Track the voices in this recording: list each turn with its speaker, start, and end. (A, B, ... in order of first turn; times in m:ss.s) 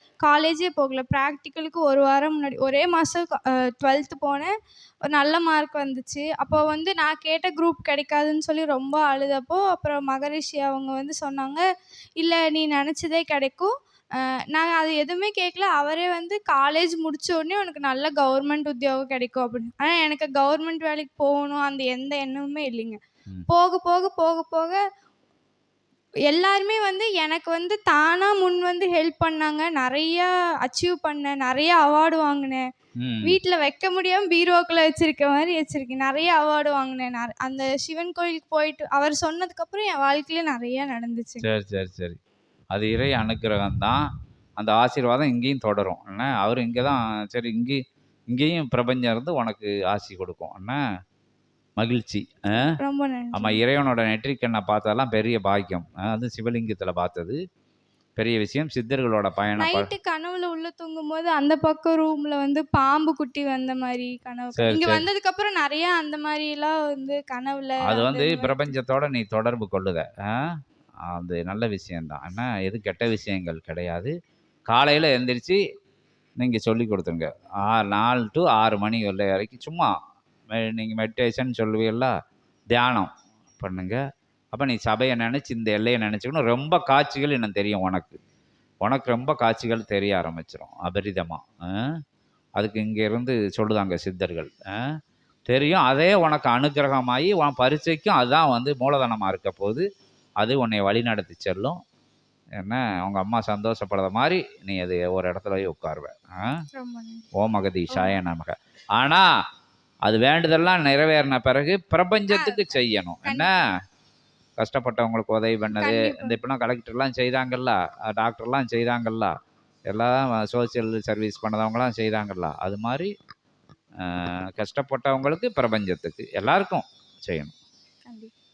0:00.2-0:04.5 A
0:05.1-0:11.6 A
0:12.2-0:13.7 A
0:14.5-0:23.0 A
0:23.5-0:24.8 A
0:26.3-0:32.6 A
0:33.0-0:33.4 B
0:33.2-0:41.4 A
0:41.4-0:42.2 B
0:42.7-0:44.0 B
0:44.6-0:47.8 B
0:48.3-0:50.8 B
0:51.8-0:52.5 B
0:52.8-0:53.6 A
0:53.4-0:57.4 B
0:58.2-0:59.9 B
0:59.6-1:08.7 A
1:04.6-1:05.0 B
1:07.9-1:10.4 B
1:11.1-1:14.1 B
1:14.7-1:15.6 B
1:16.4-1:19.9 B
1:20.5-1:22.1 B
1:22.7-1:24.0 B
1:24.5-1:28.2 B
1:28.8-1:31.4 B
1:32.6-1:34.5 B
1:35.5-1:39.8 B
1:40.4-1:41.7 B
1:42.6-1:46.6 B
1:46.7-1:47.2 A
1:47.4-1:49.2 B
1:47.9-1:48.2 A
1:50.1-1:53.5 B
1:52.3-1:53.5 A
1:54.6-1:59.3 B
1:55.8-1:56.4 A
1:59.9-2:03.1 B
2:04.0-2:07.5 B